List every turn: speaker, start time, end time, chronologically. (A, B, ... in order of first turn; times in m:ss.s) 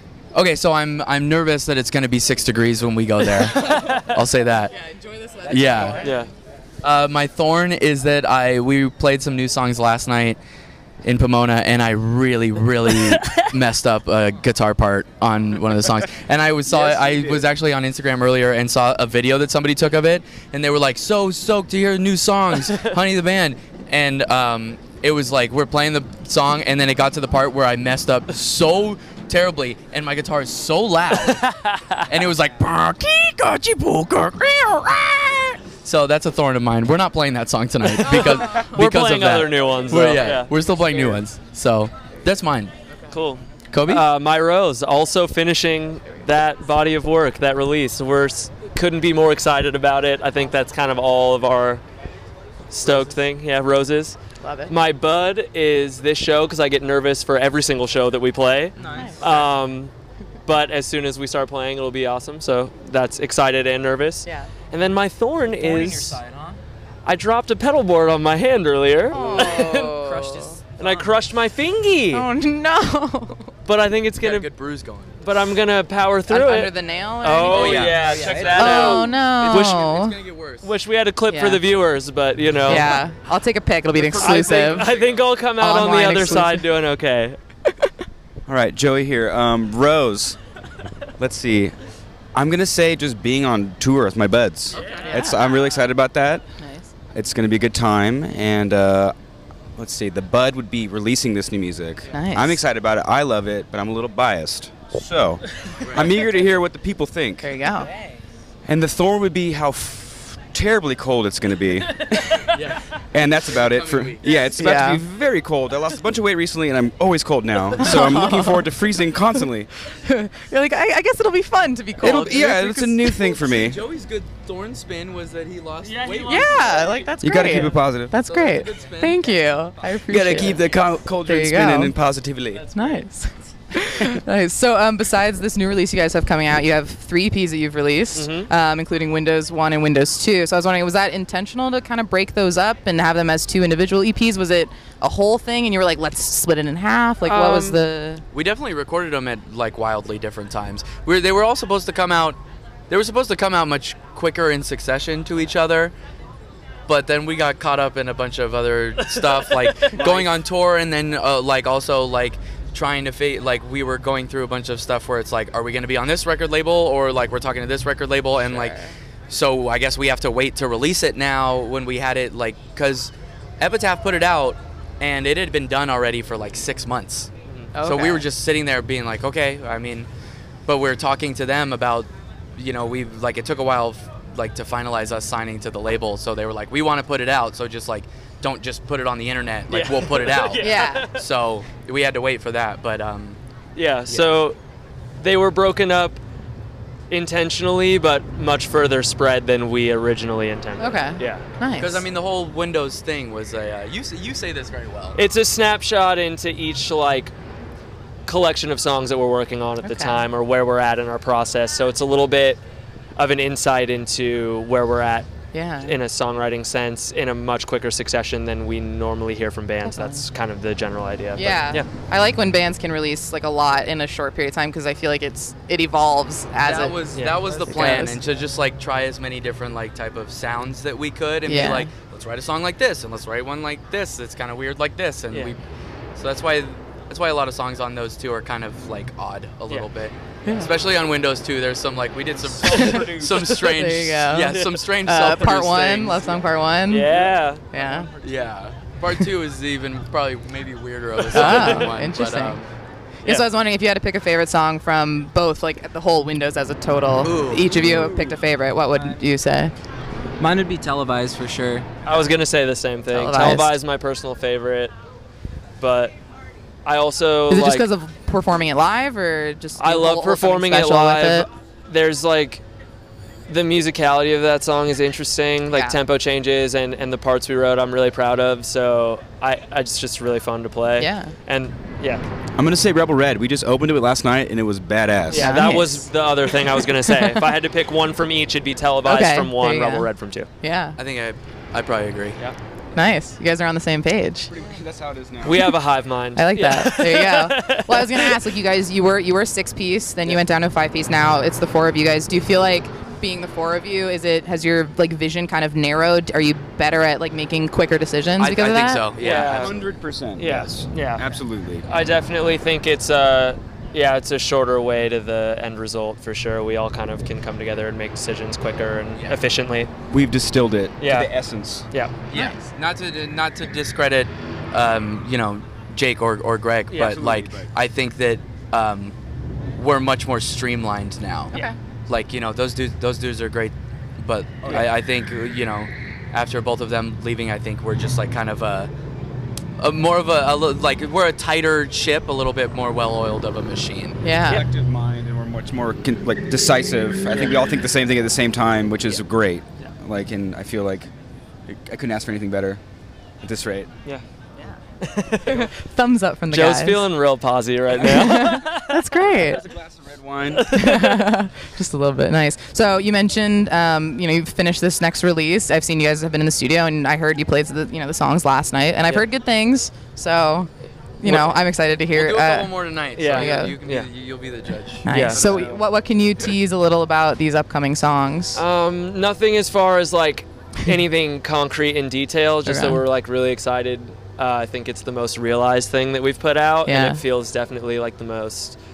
0:00.3-0:04.7 A
0:03.6-0:04.0 B
0:03.6-0:04.0 C
0:04.6-0:06.3 B
0:05.4-0:06.1 A
0:06.0-0:06.3 C
0:06.8-0:10.4 A
0:11.0-0:31.4 A
0:13.0-0:13.4 C
0:16.7-0:17.5 D
0:31.2-0:32.0 C
0:32.1-0:42.7 A
0:37.8-0:41.2 C
0:38.5-0:38.8 B
0:39.7-0:40.0 B
0:43.1-0:51.8 C
0:43.7-0:44.0 A
0:52.7-0:54.2 C
0:54.4-0:54.7 B
0:54.7-0:59.9 C
0:58.8-0:59.4 E
1:00.4-1:06.2 C
1:04.2-1:04.5 B
1:05.6-1:06.6 E
1:07.0-1:09.9 C
1:09.1-1:11.0 B
1:09.2-1:10.8 E
1:10.8-1:12.2 C
1:12.1-1:13.5 B
1:13.6-1:14.5 C
1:14.2-1:15.5 A
1:15.2-1:19.8 C
1:16.3-1:17.9 B
1:17.4-1:20.7 A
1:17.9-1:18.7 E
1:18.5-1:20.2 B
1:20.6-1:23.0 C
1:21.3-1:21.6 B
1:22.6-1:24.9 B
1:24.0-1:25.2 A
1:24.1-1:27.4 C
1:25.6-1:26.6 B
1:28.5-1:30.4 D
1:31.2-1:31.8 D
1:32.3-1:36.4 D
1:34.8-1:35.4 B
1:36.6-1:36.9 B
1:37.1-1:39.1 D
1:39.8-1:47.5 D
1:42.1-1:42.6 B
1:45.8-1:46.1 A
1:47.4-1:47.9 B
1:48.6-1:52.3 D
1:52.2-1:52.5 C
1:52.5-1:52.9 A
1:53.1-1:59.7 D
1:53.5-1:54.5 A
1:54.5-1:55.0 B
1:57.8-1:58.7 B
1:59.3-2:03.4 B
2:02.0-2:06.9 A
2:02.0-2:03.8 D
2:05.8-2:07.1 C
2:06.2-2:10.7 B
2:07.2-2:08.1 D
2:08.2-2:10.7 A
2:10.1-2:12.6 D
2:11.2-2:11.9 B
2:12.6-2:13.0 C
2:12.7-2:28.2 B
2:18.1-2:18.5 C
2:27.2-2:27.8 C
2:28.3-2:32.4 A
2:32.9-2:35.9 A
2:36.9-2:48.7 A
2:39.0-2:39.8 C
2:39.9-2:40.3 D
2:48.5-2:48.9 B
2:49.3-2:57.3 A
2:57.7-2:58.2 B
2:57.8-3:00.1 A
3:00.7-3:13.4 A
3:09.7-3:11.1 C
3:10.6-3:11.1 B
3:13.8-3:14.6 C
3:14.1-3:14.3 A
3:15.2-3:16.2 C
3:17.1-3:21.4 C
3:20.8-3:22.0 B
3:21.7-3:25.2 A
3:25.1-3:27.3 C
3:28.2-3:32.6 C
3:29.8-3:30.2 B
3:33.2-3:35.3 C
3:35.5-3:36.0 B
3:35.8-3:41.8 C
3:39.8-3:40.2 B
3:41.3-3:47.0 B
3:46.6-3:55.6 A
3:47.1-3:48.1 C
3:47.7-3:48.2 B
3:51.4-3:51.9 B
3:56.2-4:06.4 A
4:00.4-4:00.7 B
4:02.6-4:07.1 B
4:02.8-4:03.6 C
4:04.5-4:04.8 C
4:06.9-4:07.7 C
4:07.7-4:08.1 B
4:08.2-4:12.7 A
4:11.2-4:11.9 C
4:11.3-4:12.6 B
4:13.2-4:19.7 B
4:17.2-4:17.7 A
4:17.8-4:18.3 E
4:18.9-4:19.2 E
4:20.4-4:21.9 E
4:22.0-4:24.9 C
4:23.1-4:23.7 B
4:25.8-4:26.1 C
4:26.8-4:27.8 C
4:27.5-4:31.5 B
4:29.8-4:32.6 C
4:33.5-4:42.2 C
4:35.7-4:36.0 B
4:41.0-4:41.3 B
4:42.6-4:45.6 D
4:45.3-4:50.5 C
4:45.3-4:46.1 B
4:46.6-4:47.5 B
4:49.0-4:50.1 B
4:50.6-4:51.0 B
4:51.0-4:52.4 A
4:52.9-4:54.5 B
4:54.5-4:55.7 D
4:55.4-4:58.3 C
4:56.4-5:09.1 B
5:08.4-5:09.7 A
5:09.2-5:09.7 C
5:09.4-5:11.8 D
5:10.4-5:11.2 C
5:11.8-5:19.9 C
5:19.1-5:19.4 A
5:20.1-5:21.8 D
5:21.0-5:21.3 C
5:22.3-5:29.1 A
5:22.3-5:22.7 B
5:26.9-5:27.2 C
5:27.0-5:27.7 D
5:29.7-5:31.5 A
5:32.1-5:38.9 A
5:34.6-5:34.9 C
5:39.8-5:44.2 A
5:44.2-5:44.6 B
5:44.5-5:51.1 D
5:47.3-5:47.6 C
5:51.7-5:52.8 D
5:53.4-5:53.9 D
5:55.0-5:55.6 C
5:55.4-5:57.0 B
5:56.5-5:59.0 C
5:57.9-5:58.6 D
5:58.0-5:59.6 B
5:59.3-6:00.7 D
6:00.5-6:01.2 C
6:00.7-6:10.7 B
6:11.2-6:12.7 B
6:11.2-6:11.5 C
6:12.1-6:15.5 A
6:13.2-6:14.1 C
6:13.3-6:13.8 B
6:15.0-6:18.6 B
6:15.1-6:15.4 C
6:15.4-6:15.8 D
6:18.5-6:28.8 C
6:22.6-6:23.0 B
6:26.8-6:27.2 B